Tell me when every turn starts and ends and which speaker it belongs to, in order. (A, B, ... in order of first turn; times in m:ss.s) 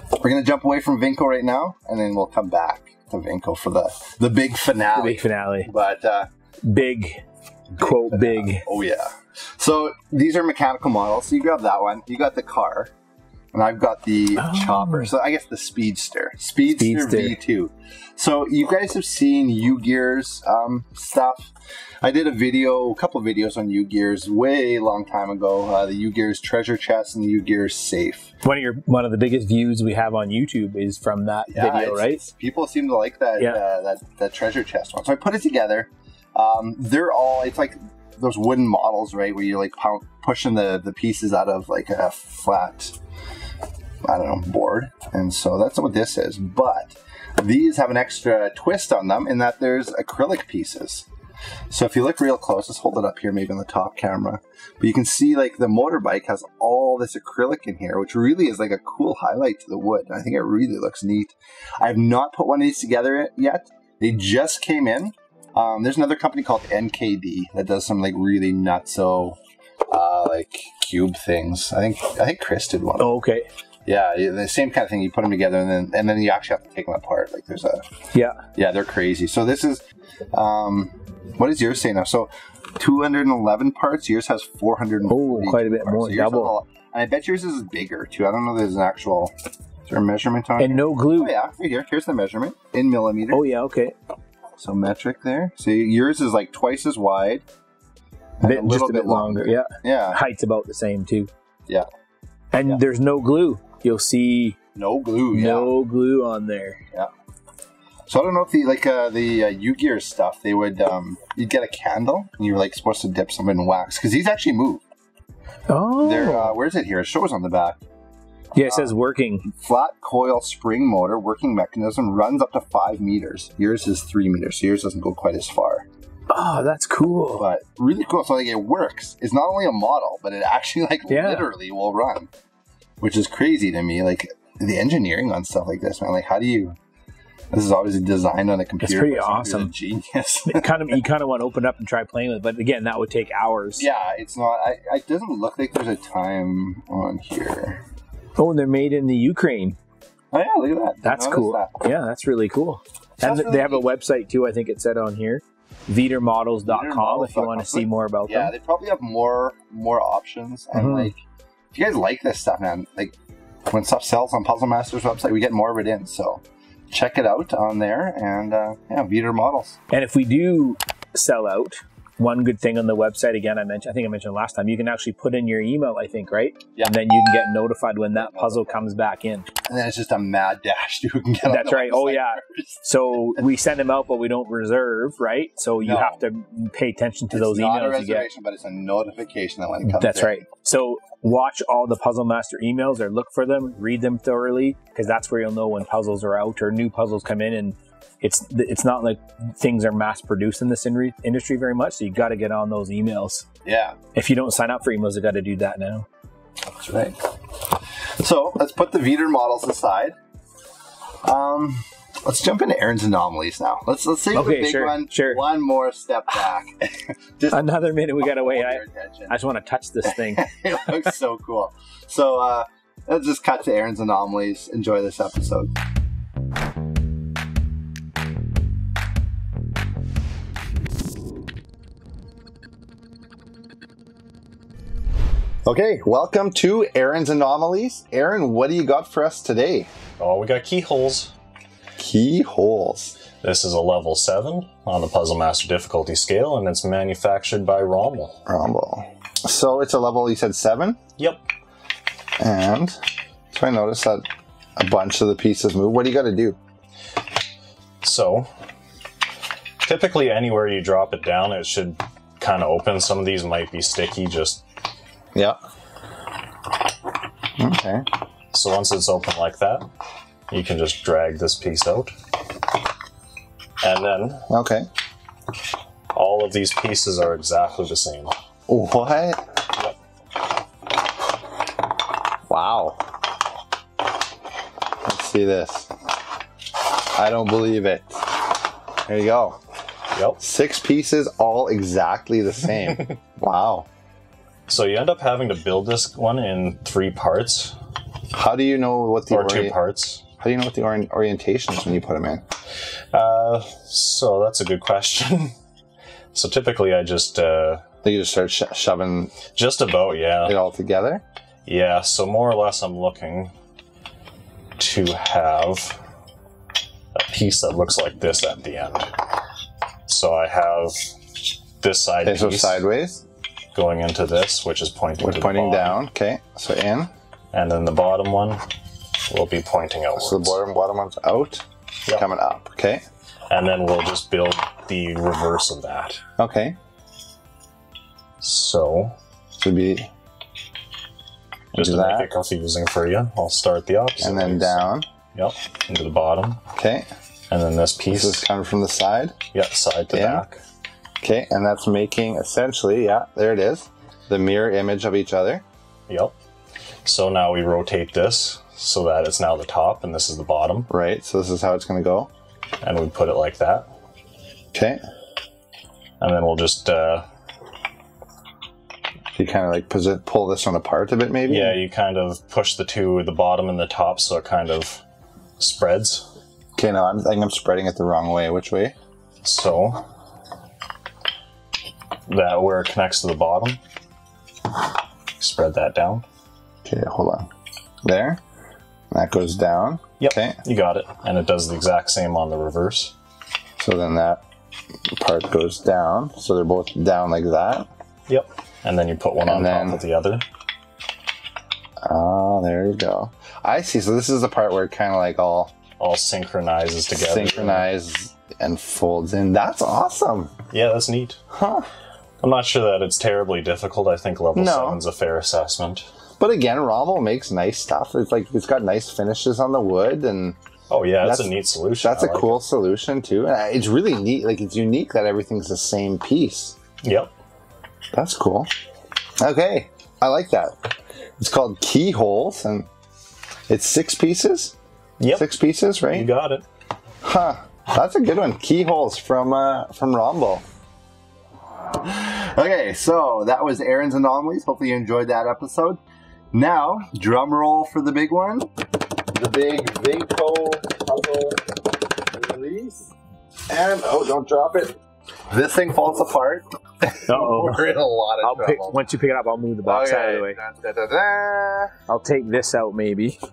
0:00.2-0:06.3 A
0:05.0-0:05.7 B
0:06.6-0:07.2 B
0:07.8-0:08.6 B
0:07.8-0:12.9 A
0:13.5-0:28.3 A
0:14.4-0:15.1 B
0:16.8-0:17.4 B
0:28.4-0:32.2 B
0:31.5-0:43.0 A
0:44.0-0:51.1 A
0:51.7-1:09.4 A
1:09.9-1:13.1 A
1:13.0-1:13.4 B
1:13.8-1:17.9 A
1:18.1-1:18.4 B
1:18.5-1:29.3 A
1:25.1-1:26.5 B
1:29.9-1:33.4 A
1:30.6-1:31.3 B
1:33.3-1:33.9 B
1:34.6-1:37.4 A
1:38.4-1:40.2 A
1:38.4-1:41.3 B
1:42.5-1:44.6 B
1:44.7-1:45.7 A
1:45.3-1:46.8 B
1:48.1-1:54.8 A
1:55.7-1:56.6 B
1:56.0-1:57.8 A
1:58.5-1:59.5 B
1:58.6-1:58.9 A
1:59.5-2:05.8 A
2:06.3-2:07.4 B
2:07.4-2:12.3 A
2:11.1-2:11.5 B
2:13.0-2:16.8 A
2:17.5-2:20.9 A
2:18.8-2:19.7 B
2:20.5-2:23.9 B
2:23.8-2:27.8 A
2:28.4-2:29.8 B
2:30.3-2:31.8 A
2:31.0-2:38.5 B
2:33.2-2:33.9 A
2:36.6-2:41.2 A
2:40.7-2:41.1 B
2:41.7-2:43.1 A
2:43.7-2:49.8 A
2:49.9-2:59.5 B
2:58.2-2:58.8 A
2:59.7-3:02.8 A
3:01.4-3:08.3 B
3:05.8-3:06.2 A
3:07.3-3:10.4 A
3:09.8-3:23.4 B
3:23.6-3:24.0 A
3:24.1-3:26.1 B
3:26.7-3:27.2 A
3:28.2-3:30.2 A
3:31.2-3:37.7 A
3:34.3-3:35.4 B
3:37.5-3:40.5 B
3:38.2-3:39.3 A
3:40.0-3:45.7 A
3:55.6-3:59.9 A
4:00.2-4:01.3 C
4:02.0-4:03.2 A
4:03.4-4:08.4 C
4:08.5-4:11.0 A
4:12.4-4:14.2 A
4:14.8-4:16.6 A
4:18.0-4:18.5 C
4:19.8-4:24.6 C
4:27.6-4:28.0 A
4:28.5-4:29.9 C
4:30.5-4:32.1 C
4:33.8-4:34.4 C
4:34.5-4:34.9 A
4:36.1-4:38.3 C
4:38.7-4:39.4 A
4:42.5-4:43.0 A
4:45.0-4:45.9 A
4:46.9-4:49.6 A
4:50.1-4:50.4 C
4:50.4-4:53.9 A
4:54.7-4:57.7 C
4:58.3-4:59.7 A
4:59.3-5:00.2 C
5:00.4-5:02.4 A
5:03.1-5:05.5 C
5:06.3-5:07.8 C
5:08.0-5:09.4 A
5:09.5-5:10.6 C
5:10.4-5:11.2 A
5:11.6-5:13.5 C
5:14.8-5:16.0 C
5:17.1-5:19.1 C
5:20.1-5:21.1 C
5:21.8-5:22.8 C
5:22.2-5:23.2 A
5:23.7-5:26.0 C
5:25.2-5:27.1 A
5:27.5-5:28.6 C
5:29.2-5:30.6 C
5:30.2-5:33.0 A
5:33.5-5:36.2 C
5:36.4-5:36.8 A
5:38.4-5:39.2 C
5:39.6-5:40.1 A
5:41.7-5:46.6 C
5:41.7-5:42.3 A
5:44.2-5:45.0 A
5:46.7-5:47.1 A
5:47.5-5:48.4 C
5:48.1-5:49.4 A
5:49.5-5:50.6 C
5:50.1-5:50.4 A
5:51.2-5:55.6 A
5:56.1-5:56.3 C
5:57.0-6:00.9 C
6:00.9-6:02.3 A
6:02.8-6:03.9 C
6:04.7-6:05.0 A
6:06.2-6:07.2 C
6:09.4-6:11.8 A
6:11.5-6:15.0 C
6:15.6-6:16.3 C
6:16.8-6:18.9 A
6:19.4-6:20.0 C
6:22.3-6:23.8 C
6:25.4-6:26.2 C
6:26.8-6:27.5 A
6:28.0-6:28.4 A
6:29.1-6:30.6 A
6:30.2-6:33.1 C
6:33.8-6:34.4 A
6:35.2-6:37.9 A
6:38.3-6:40.4 C
6:39.4-6:40.0 A
6:42.0-6:45.8 A
6:46.0-6:47.8 C
6:47.1-6:50.5 A
6:50.7-6:51.4 C
6:51.5-6:51.9 A
6:52.4-6:56.1 C
6:54.5-6:55.0 A
6:56.4-7:00.6 A
7:00.9-7:02.6 C
7:01.2-7:06.8 A
7:07.0-7:07.3 C
7:08.1-7:08.7 A
7:09.4-7:10.7 A
7:11.4-7:12.9 A
7:13.7-7:14.8 A
7:15.2-7:15.4 C
7:15.3-7:16.3 A
7:16.1-7:16.6 C
7:17.2-7:20.6 A
7:22.0-7:26.0 A
7:26.5-7:28.7 A
7:29.3-7:33.1 A
7:33.7-7:34.9 A
7:35.5-7:39.0 A
7:37.3-7:40.6 B
7:39.8-7:41.9 A
7:42.1-7:43.4 B